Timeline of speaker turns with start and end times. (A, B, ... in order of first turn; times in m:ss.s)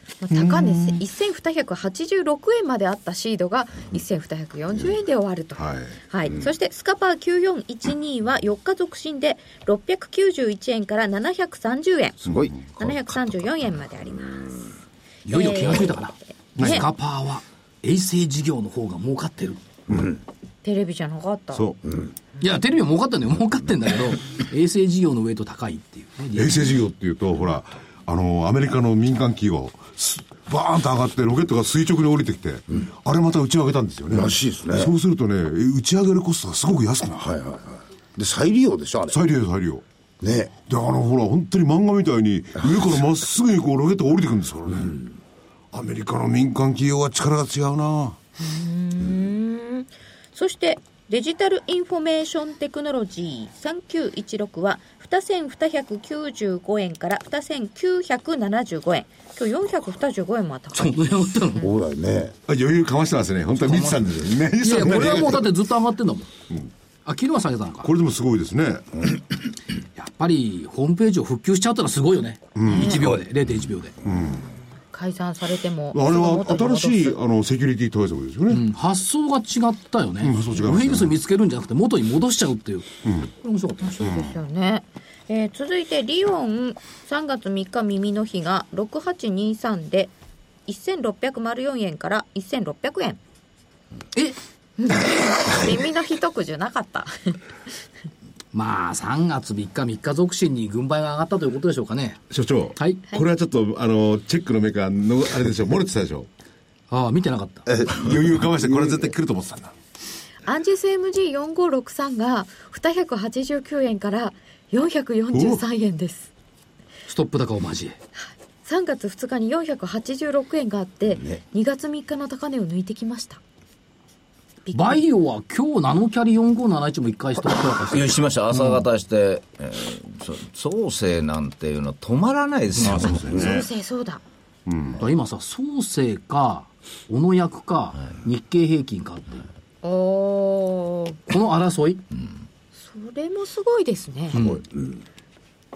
0:00.2-0:12.2 A
0:00.3-0:01.0 B
0:05.6-0:05.9 B
0:12.2-0:12.6 C
0:12.3-0:12.7 B
0:12.7-0:14.7 A
0:15.2-0:19.6 D
0:15.3-0:16.8 A
0:16.6-0:16.9 B
0:20.6-0:21.7 A
0:21.5-0:21.8 B
0:22.4-0:26.7 D
0:26.4-0:37.3 B
0:34.1-0:34.9 C
0:37.2-0:39.2 C
0:39.1-0:39.8 B
0:40.2-0:40.5 C
0:40.6-0:45.0 B
0:45.7-0:48.2 B
0:48.4-1:01.0 A
1:00.7-1:01.6 D
1:01.6-1:02.4 C
1:02.5-1:05.5 B
1:03.6-1:06.3 D
1:07.1-1:07.9 D
1:07.8-1:09.1 B
1:10.0-1:13.9 D
1:12.6-1:13.2 B
1:12.6-1:13.0 A
1:14.0-1:14.4 B
1:14.3-1:17.2 A
1:15.9-1:18.6 B
1:18.5-1:24.1 D
1:20.2-1:21.1 B
1:23.9-1:30.1 A
1:30.7-1:33.2 A
1:34.8-1:37.4 A
1:38.5-1:42.2 D
1:42.3-1:46.3 B
1:42.8-1:43.1 D
1:46.9-1:47.7 D
1:47.8-1:49.7 B
1:48.6-1:49.1 C
1:50.4-1:56.3 A
1:55.3-1:55.6 B
1:57.1-1:58.0 D
1:58.6-2:03.4 A
2:04.6-2:05.0 A
2:04.7-2:08.8 D
2:07.9-2:13.4 E
2:12.8-2:13.7 B
2:13.3-2:14.2 A
2:14.7-2:15.0 B
2:15.0-2:19.5 D
2:19.8-2:21.2 A
2:21.3-2:22.0 D
2:22.8-2:24.4 A
2:24.3-2:24.6 D